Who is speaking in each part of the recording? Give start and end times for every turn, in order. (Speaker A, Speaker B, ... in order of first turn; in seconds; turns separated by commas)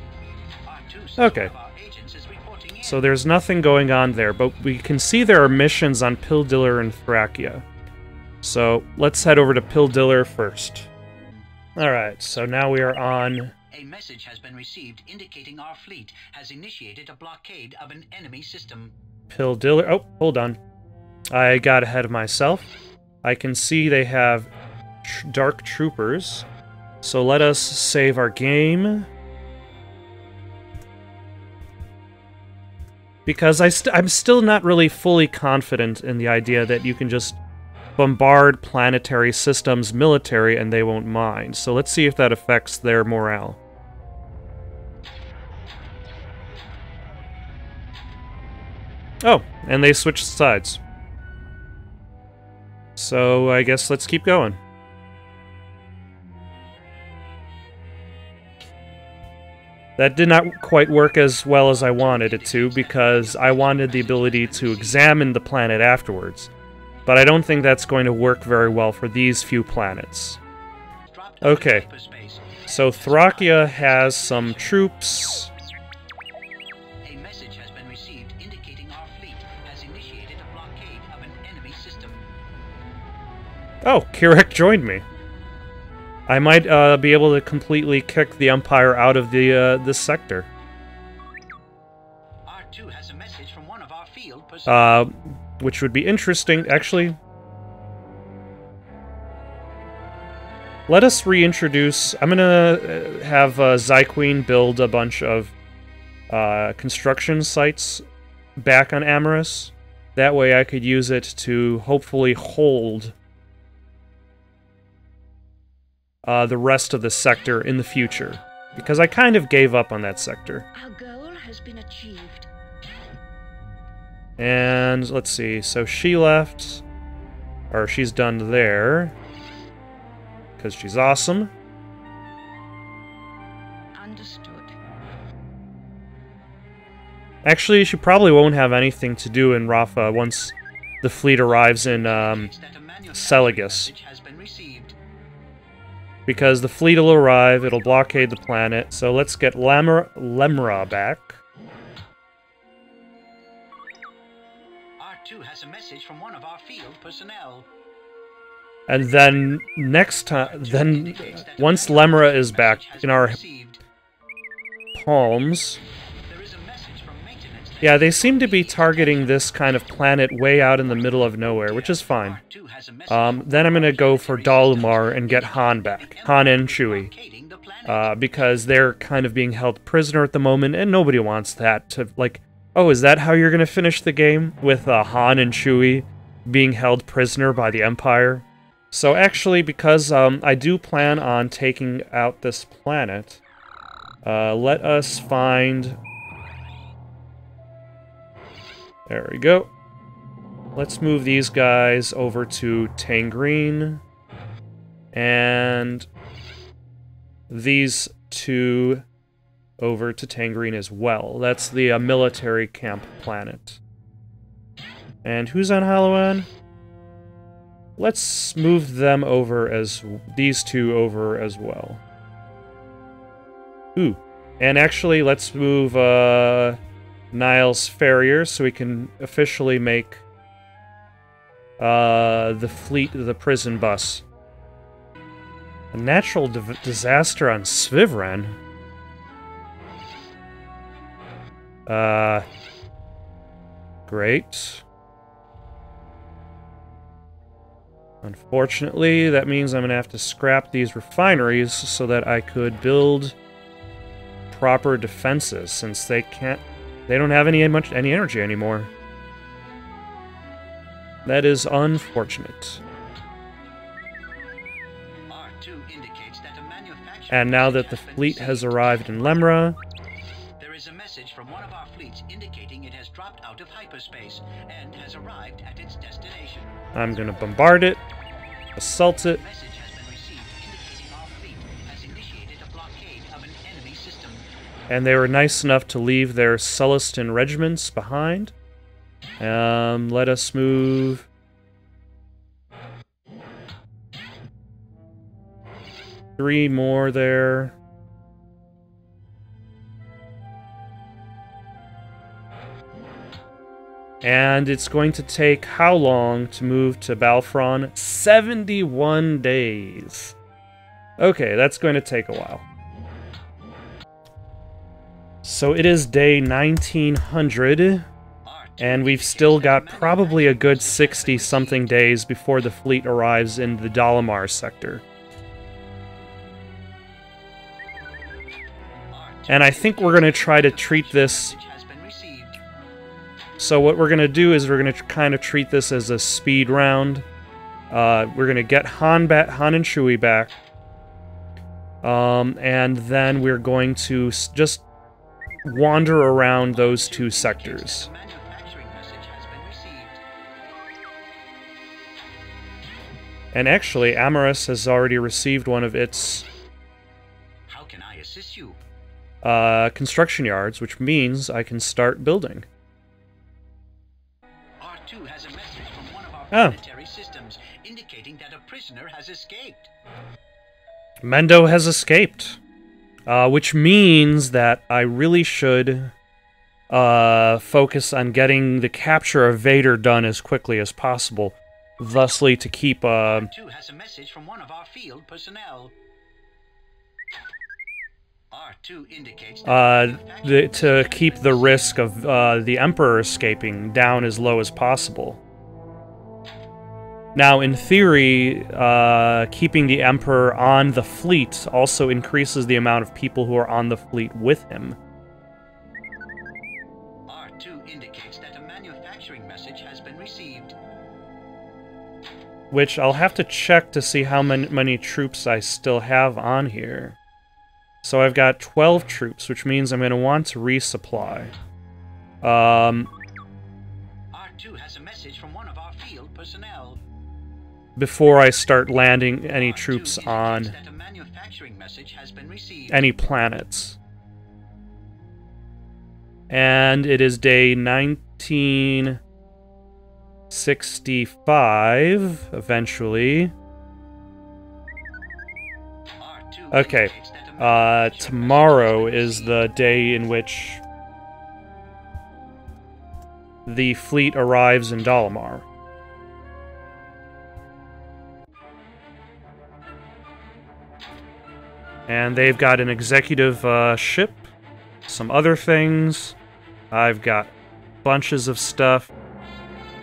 Speaker A: 0.7-3.0, Speaker B: 1.2-1.5, Speaker B: 2.8-7.7, Speaker B: 8.4-10.9, Speaker B: 11.8-13.5, Speaker A: 13.7-18.9, Speaker B: 19.3-20.6, Speaker B: 21.3-22.7, Speaker B: 23.2-24.5, Speaker B: 25.0-26.5, Speaker B: 27.0-29.1, Speaker B: 33.3-37.4, Speaker B: 38.0-43.6, Speaker B: 49.2-50.8, Speaker B: 53.0-54.6, Speaker B: 60.0-66.5, Speaker A: 61.7-65.2, Speaker B: 67.1-70.4, Speaker A: 71.1-74.8, Speaker B: 71.4-71.9, Speaker B: 72.7-75.5, Speaker A: 77.0-82.2, Speaker B: 83.8-85.0, Speaker B: 86.3-90.5, Speaker A: 92.5-95.1, Speaker B: 94.7-97.2, Speaker B: 100.9-105.5, Speaker B: 106.3-108.0, Speaker B: 108.6-113.2, Speaker B: 116.2-120.7, Speaker C: 120.7-122.5, Speaker B: 124.4-126.8, Speaker B: 127.7-129.2, Speaker B: 130.6-131.5, Speaker C: 133.9-134.8, Speaker B: 137.4-142.5, Speaker A: 141.5-145.0, Speaker B: 143.1-143.9, Speaker B: 146.3-151.4, Speaker A: 155.0-157.7, Speaker B: 158.9-163.4, Speaker A: 160.4-163.8, Speaker B: 164.9-165.8, Speaker A: 166.3-169.5, Speaker B: 167.8-172.4, Speaker A: 171.5-178.5, Speaker B: 173.1-177.1, Speaker B: 177.9-193.4, Speaker B: 194.2-196.0, Speaker B: 199.1-199.7, Speaker B: 200.8-204.0, Speaker B: 205.1-206.1, Speaker B: 207.5-209.1, Speaker B: 209.8-213.8, Speaker B: 215.2-216.5, Speaker B: 218.0-222.0, Speaker B: 223.9-226.8, Speaker B: 227.3-230.2, Speaker B: 231.8-234.2, Speaker B: 235.9-238.6, Speaker B: 241.9-242.5, Speaker B: 244.1-244.8, Speaker B: 248.2-253.4, Speaker B: 254.5-258.9, Speaker B: 261.2-262.8, Speaker A: 265.3-269.4, Speaker B: 267.3-269.8, Speaker A: 270.6-276.8, Speaker B: 276.9-278.0, Speaker B: 278.8-279.4, Speaker A: 279.2-284.5, Speaker B: 284.9-288.5, Speaker B: 289.4-291.3, Speaker B: 296.4-297.8, Speaker B: 304.2-310.4, Speaker B: 311.2-312.6, Speaker B: 315.4-318.1, Speaker A: 318.4-321.9, Speaker B: 318.8-325.0, Speaker A: 329.1-332.6, Speaker B: 329.5-331.5, Speaker B: 333.6-337.2, Speaker B: 337.9-340.5, Speaker B: 342.0-344.9, Speaker B: 345.6-348.1, Speaker A: 346.7-350.2, Speaker B: 353.5-356.4, Speaker A: 357.7-358.8, Speaker B: 359.4-362.7, Speaker A: 364.8-369.9, Speaker B: 366.5-366.8, Speaker B: 371.2-372.6, Speaker B: 373.3-376.1, Speaker B: 376.9-383.5, Speaker A: 383.2-385.9, Speaker A: 388.5-392.0, Speaker B: 389.6-395.4, Speaker B: 397.4-405.0, Speaker A: 407.3-410.8, Speaker B: 412.7-417.2, Speaker B: 418.0-421.5, Speaker B: 422.4-423.1, Speaker A: 424.3-427.0, Speaker B: 428.0-430.7, Speaker A: 429.5-433.1, Speaker B: 432.9-434.0, Speaker B: 436.5-439.2, Speaker B: 440.5-443.5, Speaker A: 446.2-449.7, Speaker B: 446.7-450.8, Speaker B: 453.7-455.7, Speaker B: 462.1-464.5, Speaker B: 465.1-466.4, Speaker B: 466.9-467.5, Speaker B: 468.0-469.1